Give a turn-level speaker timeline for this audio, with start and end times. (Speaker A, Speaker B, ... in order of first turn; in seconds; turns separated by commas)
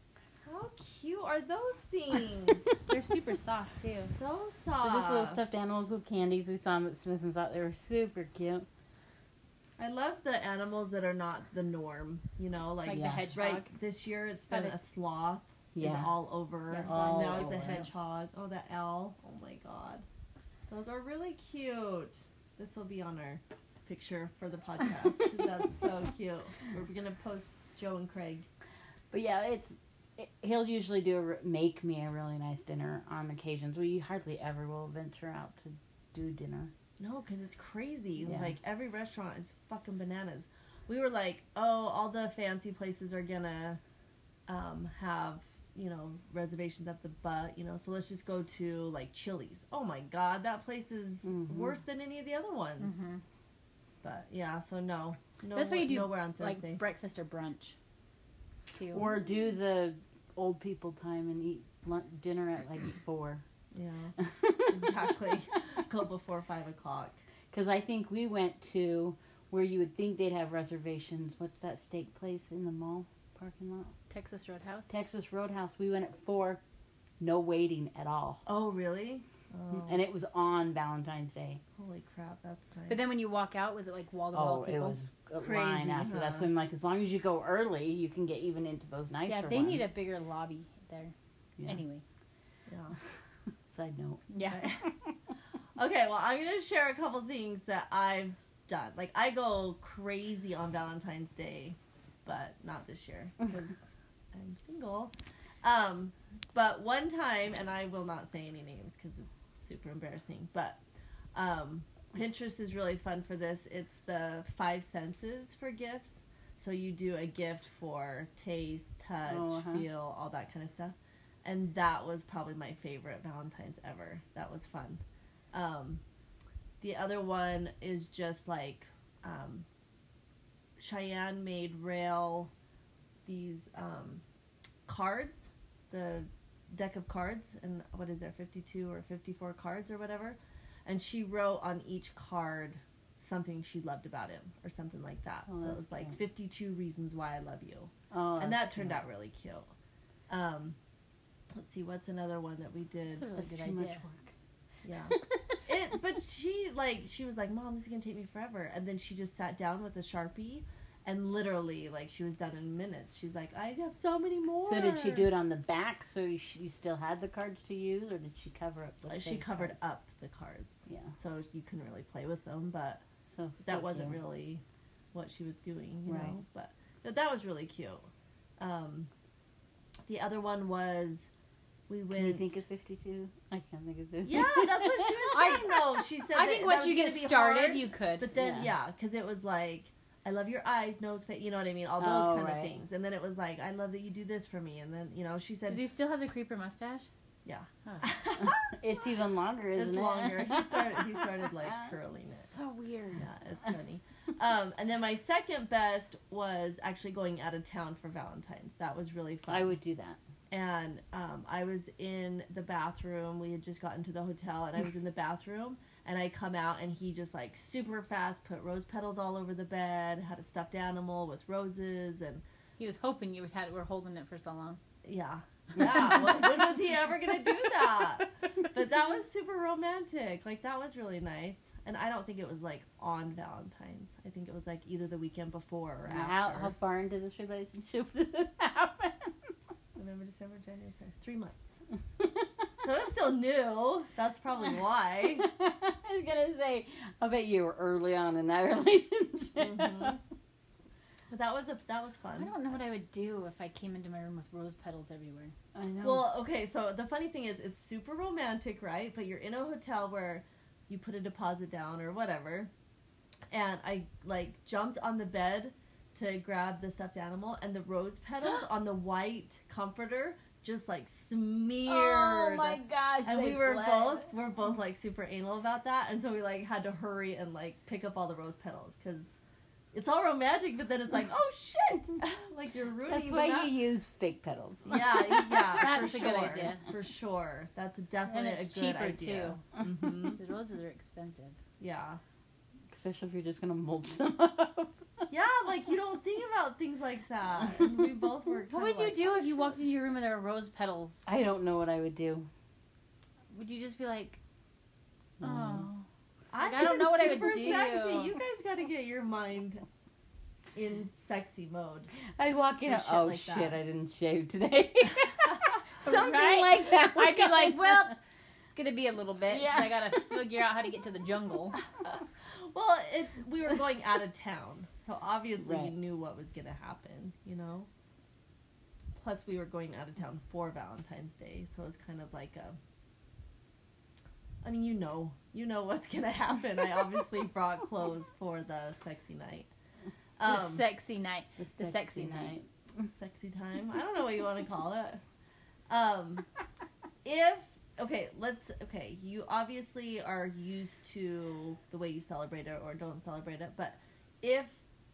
Speaker A: 0.4-2.6, Speaker B: 2.9-4.1, Speaker A: 4.1-5.4, Speaker C: 4.8-8.7, Speaker A: 9.8-20.1, Speaker B: 12.9-13.7, Speaker C: 12.9-13.3, Speaker B: 14.5-14.8, Speaker C: 15.8-16.2, Speaker B: 16.7-17.9, Speaker C: 16.8-17.9, Speaker A: 20.7-28.5, Speaker C: 29.1-36.7, Speaker A: 37.0-43.8, Speaker C: 38.2-38.5, Speaker A: 44.5-53.0, Speaker C: 51.2-51.8, Speaker B: 52.8-53.2, Speaker A: 54.0-56.8, Speaker B: 55.5-57.8, Speaker B: 58.7-59.1, Speaker C: 58.9-63.4, Speaker A: 63.7-64.1, Speaker C: 64.2-64.8, Speaker A: 64.7-67.2, Speaker C: 67.5-73.9, Speaker B: 74.1-74.9, Speaker C: 74.9-76.6, Speaker C: 77.2-78.4, Speaker A: 78.5-80.0, Speaker C: 79.8-81.6, Speaker A: 81.8-83.1, Speaker B: 82.9-85.0, Speaker C: 84.3-89.9, Speaker A: 85.4-86.5, Speaker B: 89.3-92.0, Speaker A: 92.7-93.0, Speaker C: 93.7-94.9, Speaker B: 94.3-94.7, Speaker A: 94.5-94.8, Speaker A: 95.8-110.8, Speaker A: 111.3-126.0, Speaker C: 119.3-119.8, Speaker A: 126.8-129.7, Speaker A: 130.8-132.5, Speaker A: 133.3-134.2, Speaker A: 134.9-149.7, Speaker C: 145.5-146.2, Speaker C: 148.1-149.0, Speaker A: 150.3-150.8, Speaker A: 151.5-153.3, Speaker B: 153.1-154.0, Speaker C: 153.3-154.3, Speaker A: 154.8-155.2, Speaker A: 155.7-165.3, Speaker C: 164.6-169.8, Speaker A: 169.1-173.0, Speaker C: 173.3-174.2, Speaker A: 173.6-174.6, Speaker A: 175.1-179.1, Speaker C: 176.1-176.4, Speaker A: 180.1-181.3, Speaker A: 181.9-182.6, Speaker C: 182.1-185.5, Speaker A: 184.2-195.9, Speaker B: 185.3-185.7, Speaker B: 186.3-188.3, Speaker C: 188.3-188.8, Speaker C: 192.0-192.8, Speaker B: 195.7-197.1, Speaker A: 197.4-198.6, Speaker B: 197.8-198.1, Speaker C: 198.4-201.9, Speaker A: 199.8-202.5, Speaker B: 202.5-203.2, Speaker A: 203.2-209.8, Speaker C: 209.5-210.2, Speaker A: 210.5-222.4, Speaker B: 222.8-224.8, Speaker A: 225.0-236.8, Speaker C: 236.1-239.3, Speaker A: 239.9-241.8, Speaker A: 242.8-245.5, Speaker C: 245.4-250.2, Speaker A: 249.6-250.2, Speaker A: 251.3-252.5, Speaker B: 252.4-255.5, Speaker C: 255.7-256.3, Speaker A: 256.0-262.7, Speaker A: 263.5-279.4, Speaker C: 271.9-274.3, Speaker A: 279.9-283.8, Speaker C: 283.1-285.9, Speaker A: 284.9-290.4, Speaker B: 285.8-286.9, Speaker C: 288.3-289.1, Speaker B: 288.3-289.6, Speaker B: 290.4-291.6, Speaker A: 291.8-292.2, Speaker C: 292.9-295.0, Speaker A: 295.3-299.8, Speaker B: 298.7-301.2, Speaker C: 301.3-302.5, Speaker B: 303.5-304.4, Speaker C: 305.4-305.9, Speaker B: 305.4-306.1, Speaker A: 306.5-309.8, Speaker B: 306.6-308.4, Speaker A: 310.8-312.1, Speaker C: 312.3-318.1, Speaker A: 312.9-313.8, Speaker B: 316.0-318.2, Speaker B: 318.8-321.8, Speaker C: 319.5-320.4, Speaker A: 322.1-327.9, Speaker C: 325.6-325.9, Speaker A: 329.2-332.8, Speaker A: 334.6-339.7, Speaker A: 340.4-340.9, Speaker B: 340.4-342.6, Speaker C: 341.6-343.1, Speaker A: 343.1-345.2, Speaker A: 345.9-346.4, Speaker A: 347.2-354.8